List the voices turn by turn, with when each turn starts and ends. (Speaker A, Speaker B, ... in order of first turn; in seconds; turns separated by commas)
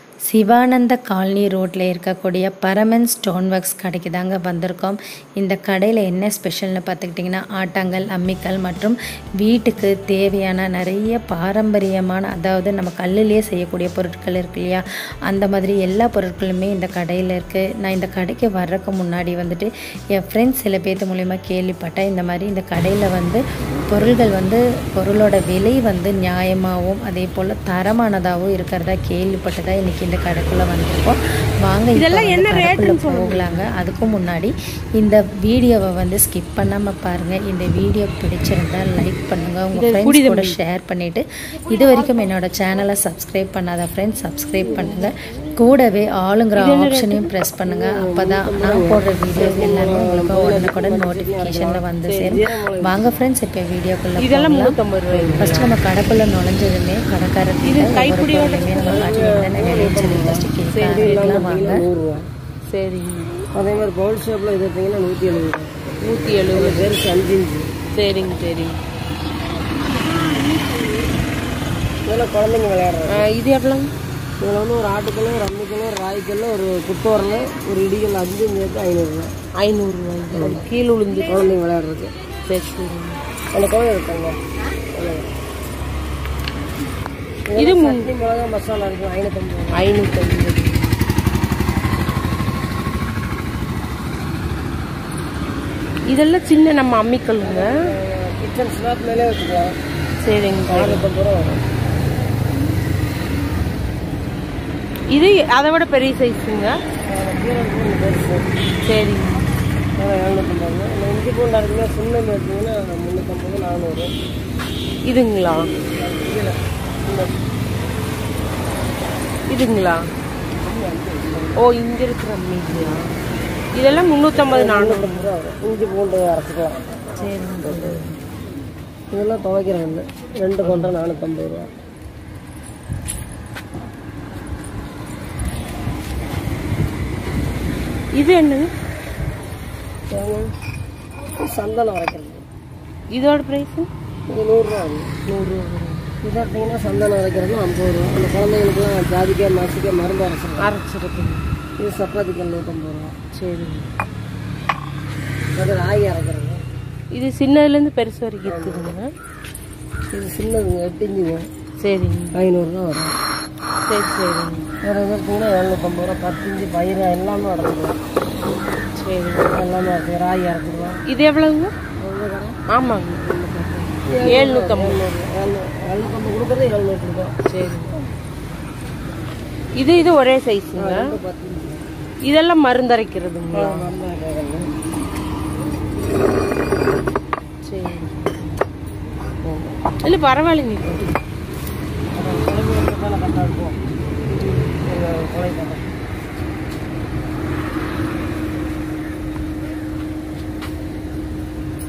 Speaker A: 0.3-54.8, Speaker B: 31.9-33.7, Speaker B: 39.7-40.6, Speaker B: 46.6-47.3, Speaker C: 47.7-53.1, Speaker B: 54.2-55.8, Speaker C: 55.1-55.5, Speaker A: 55.3-61.8, Speaker B: 57.6-59.1, Speaker C: 58.7-62.3, Speaker B: 60.7-61.6, Speaker B: 62.7-63.4, Speaker C: 63.5-65.8, Speaker B: 66.0-67.0, Speaker C: 66.5-67.7, Speaker B: 67.9-68.8, Speaker C: 72.1-73.3, Speaker B: 73.1-73.9, Speaker C: 74.4-79.3, Speaker B: 79.6-81.5, Speaker C: 80.3-80.6, Speaker C: 81.3-82.1, Speaker B: 82.5-83.2, Speaker C: 83.5-84.4, Speaker C: 84.9-85.3, Speaker C: 87.5-89.9, Speaker B: 87.6-88.1, Speaker B: 89.7-90.8, Speaker B: 96.1-97.7, Speaker C: 97.4-99.7, Speaker B: 100.2-101.1, Speaker C: 100.7-101.6, Speaker B: 105.1-106.8, Speaker C: 107.0-108.5, Speaker B: 108.8-109.4, Speaker C: 110.0-114.1, Speaker B: 115.0-115.7, Speaker C: 116.0-117.3, Speaker B: 119.5-120.0, Speaker C: 120.6-121.5, Speaker B: 121.6-123.0, Speaker B: 123.8-125.3, Speaker C: 124.5-127.2, Speaker B: 127.2-128.2, Speaker C: 129.1-131.8, Speaker B: 130.6-130.9, Speaker B: 138.1-138.7, Speaker C: 140.1-140.5, Speaker C: 141.4-142.4, Speaker B: 143.1-143.9, Speaker C: 144.3-145.1, Speaker B: 145.3-146.1, Speaker C: 146.2-150.7, Speaker B: 150.6-151.4, Speaker C: 151.8-153.2, Speaker B: 153.3-153.9, Speaker C: 155.6-156.6, Speaker B: 157.1-159.1, Speaker C: 158.4-158.9, Speaker C: 160.1-161.5, Speaker B: 161.8-162.4, Speaker C: 162.3-163.1, Speaker B: 163.8-164.7, Speaker C: 164.8-168.0, Speaker B: 168.9-169.7, Speaker C: 169.5-171.0, Speaker B: 171.1-171.7, Speaker C: 172.0-172.6, Speaker B: 172.7-175.1, Speaker C: 174.1-177.3, Speaker B: 177.5-177.9, Speaker B: 179.8-181.1, Speaker C: 180.8-181.9, Speaker B: 182.3-183.9, Speaker C: 183.5-184.7, Speaker B: 187.7-188.6, Speaker C: 189.4-189.9, Speaker B: 190.0-191.1, Speaker C: 192.1-193.8, Speaker B: 194.4-194.7, Speaker C: 194.8-195.8